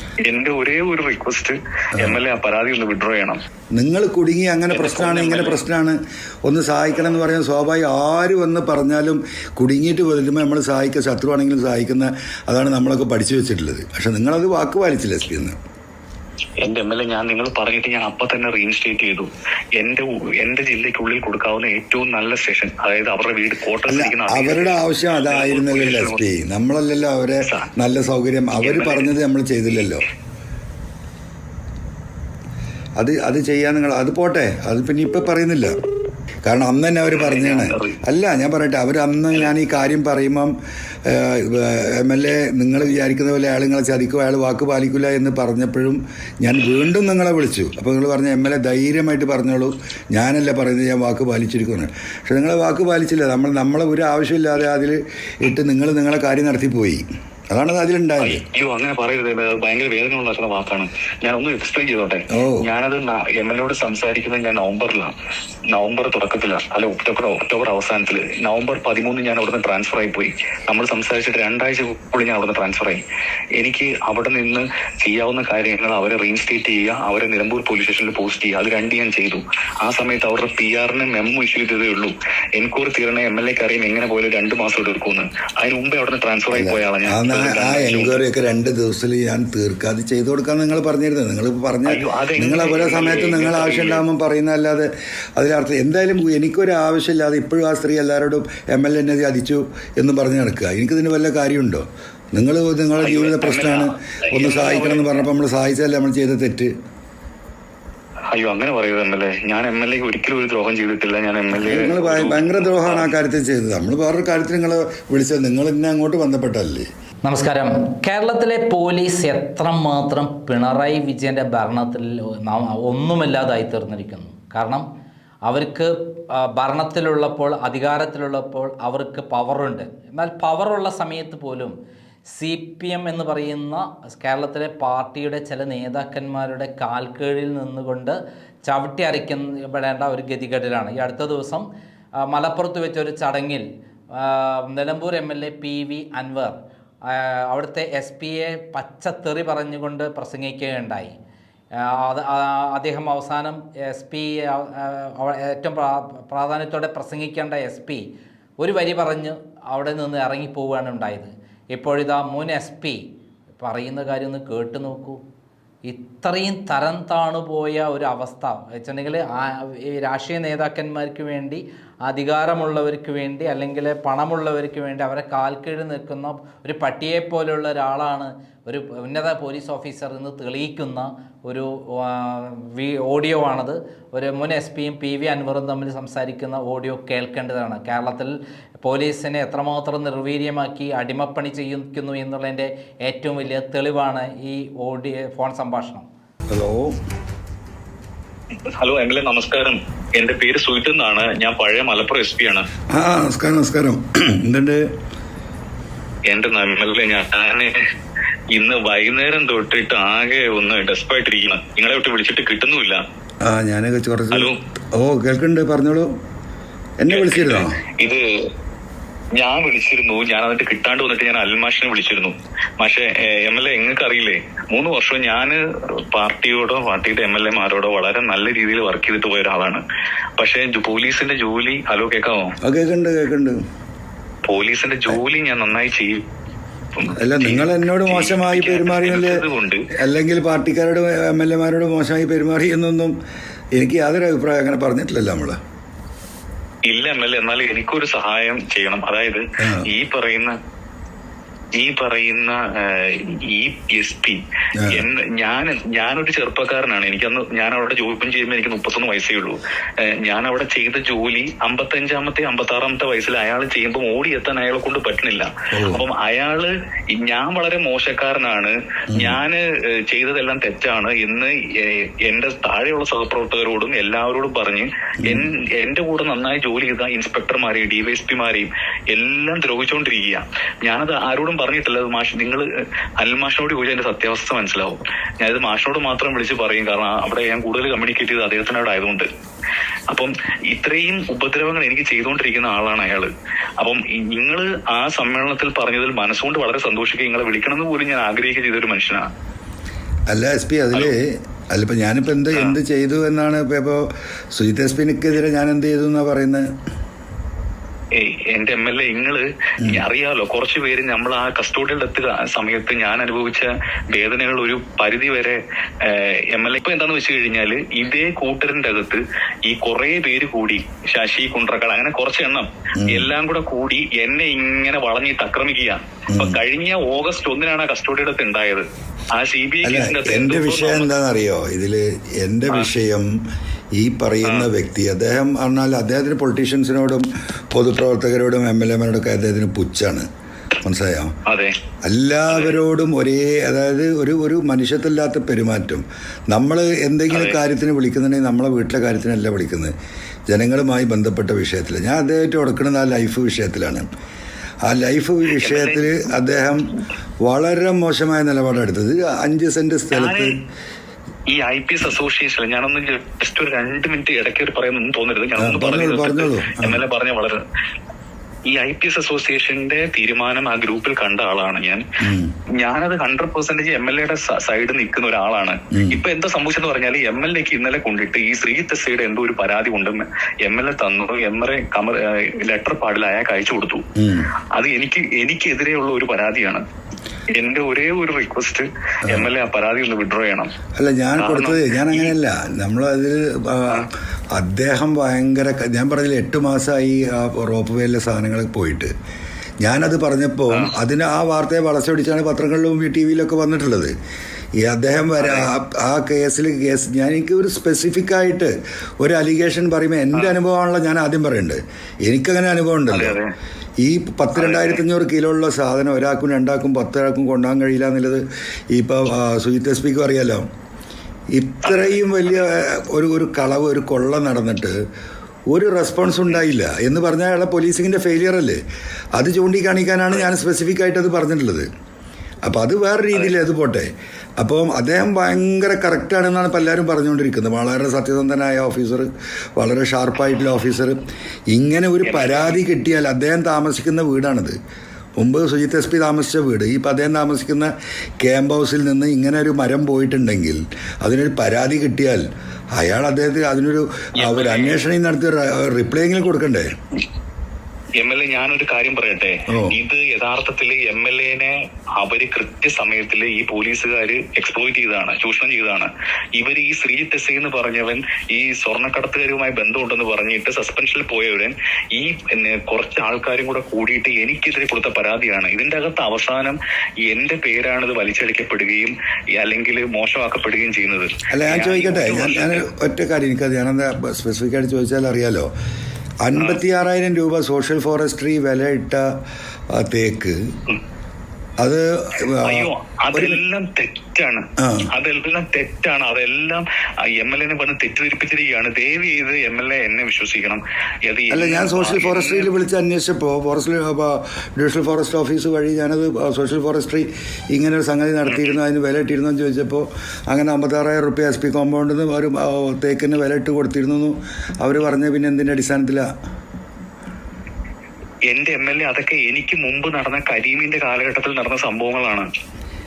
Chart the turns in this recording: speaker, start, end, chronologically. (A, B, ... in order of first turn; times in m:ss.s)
0:00.2-0:03.4 A
0:03.8-0:15.6 B
0:04.7-0:05.6 A
0:16.6-0:26.2 A
0:23.9-0:30.0 B
0:27.4-0:27.7 A
0:28.6-0:29.1 A
0:33.0-0:35.7 B
0:36.5-0:40.5 B
0:37.1-0:38.0 A
0:41.1-0:58.4 B
0:58.2-1:05.1 A
1:02.4-1:02.6 B
1:05.7-1:13.0 A
1:13.6-1:28.2 A
1:26.5-1:46.7 B
1:31.9-1:34.0 A
1:43.0-1:45.2 A
1:48.3-1:53.1 A
1:51.5-1:56.9 B
1:57.2-2:04.9 C
2:05.5-2:11.8 C
2:12.4-2:21.7 C
2:22.3-2:31.2 C
2:31.8-2:38.0 C
2:38.6-2:43.0 C
2:43.6-2:45.2 C
2:45.8-3:16.1 C
3:16.5-3:17.0 B
3:18.8-3:22.7 A
3:22.9-3:24.8 B
3:26.3-3:27.9 A
3:28.5-3:33.0 A
3:33.4-3:36.1 B
3:34.3-3:34.6 A
3:37.0-3:37.8 B
3:37.1-3:38.2 A
3:39.4-3:49.8 A
3:50.4-3:52.6 A
3:52.6-3:53.6 B
3:54.4-3:56.2 A
3:57.0-3:59.8 A
3:57.2-3:59.4 B
4:00.0-4:03.1 B
4:03.8-4:05.6 B
4:06.9-4:10.6 A
4:11.7-4:42.7 A
4:14.8-4:15.0 B
4:25.7-4:26.0 B
4:29.1-4:29.4 B
4:35.2-4:35.5 B
4:43.2-4:49.3 A
4:50.1-4:59.3 A
5:00.3-5:04.0 B
5:04.6-5:06.7 B
5:08.2-5:31.1 A
5:23.0-5:23.3 B
5:26.3-5:26.6 B
5:29.8-5:33.3 B
5:34.0-5:40.3 B
5:34.4-5:34.7 A
5:40.8-5:41.3 B
5:41.5-5:41.7 A
5:42.1-5:49.9 B
5:47.3-5:47.6 A
5:50.5-5:54.1 B
5:54.9-5:56.8 B
5:55.6-5:56.1 A
5:57.4-6:00.5 B
6:00.1-6:00.5 A
6:01.5-6:07.6 A
6:05.6-6:07.0 B
6:08.7-6:12.0 A
6:12.2-6:12.5 B
6:12.8-6:24.1 A
6:15.9-6:16.2 B
6:24.2-6:24.5 B
6:24.7-6:26.8 A
6:27.5-6:30.7 A
6:31.0-6:39.1 B
6:31.4-6:32.3 A
6:39.8-6:44.1 B
6:44.8-6:53.4 B
6:45.4-6:45.7 A
6:53.1-6:53.5 A
6:54.0-7:00.7 B
6:54.6-6:55.0 A
7:01.6-7:05.0 B
7:01.8-7:02.2 A
7:05.7-7:08.8 B
7:09.4-7:11.9 B
7:12.6-7:14.1 B
7:14.6-7:24.8 B
7:22.2-7:22.8 A
7:25.4-7:32.4 B
7:33.0-7:36.9 B
7:34.4-7:35.0 A
7:38.2-8:02.8 A
7:39.7-7:40.0 B
8:01.5-8:05.7 B
8:06.4-8:09.3 B
8:09.9-8:10.6 B
8:11.8-8:13.6 B
8:12.6-8:22.7 A
8:14.8-8:15.1 B
8:21.5-8:36.3 B
8:28.5-8:28.8 A
8:38.5-8:42.5 A